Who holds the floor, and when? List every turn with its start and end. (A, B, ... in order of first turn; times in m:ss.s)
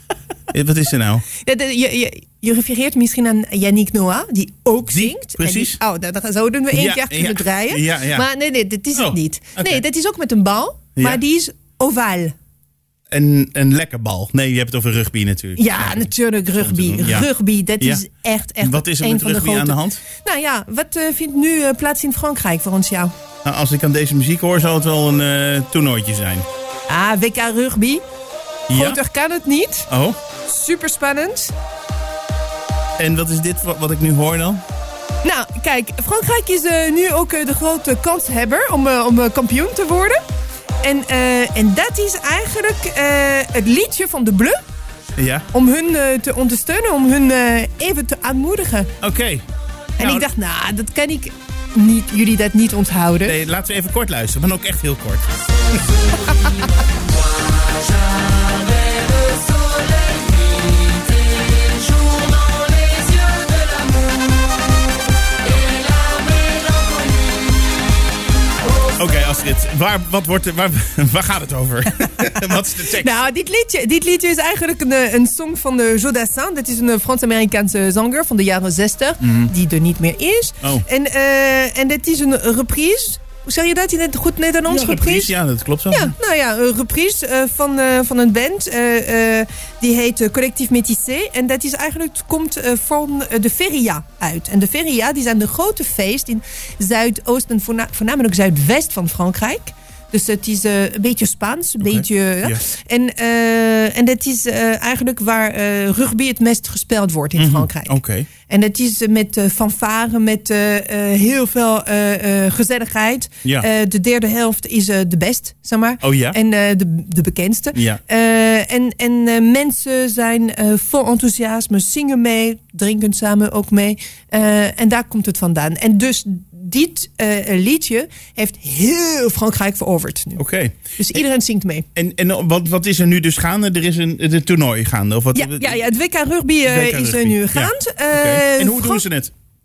0:00.5-0:01.3 A
0:01.3-0:12.4 B
0:04.8-0:05.8 A
0:06.7-0:08.2 A
0:08.9-0:09.8 A
0:13.1-0:17.3 A
0:15.6-0:23.1 B
0:18.6-0:20.0 A
0:23.4-0:26.4 A
0:26.9-0:28.0 B
0:28.7-0:29.0 A
0:28.7-0:29.9 B
0:29.9-0:30.2 A
0:30.4-0:31.5 B
0:33.0-0:34.6 A
0:35.2-0:40.2 B
0:40.8-0:44.6 B
0:45.2-0:45.5 A
0:45.5-0:48.9 B
0:49.0-0:49.4 A
0:50.0-0:53.4 B
0:50.0-0:50.2 A
0:53.2-0:55.2 A
1:09.0-1:13.2 A
1:12.8-1:25.3 B
1:19.2-1:19.5 A
1:24.7-1:26.1 A
1:25.9-2:10.4 B
1:41.8-1:42.6 A
1:47.4-1:48.3 A
1:56.0-1:56.4 A
1:57.7-1:58.0 A
2:10.4-2:11.2 A
2:11.0-2:11.8 B
2:11.9-2:15.8 A
2:15.3-2:19.0 B
2:16.6-2:19.3 A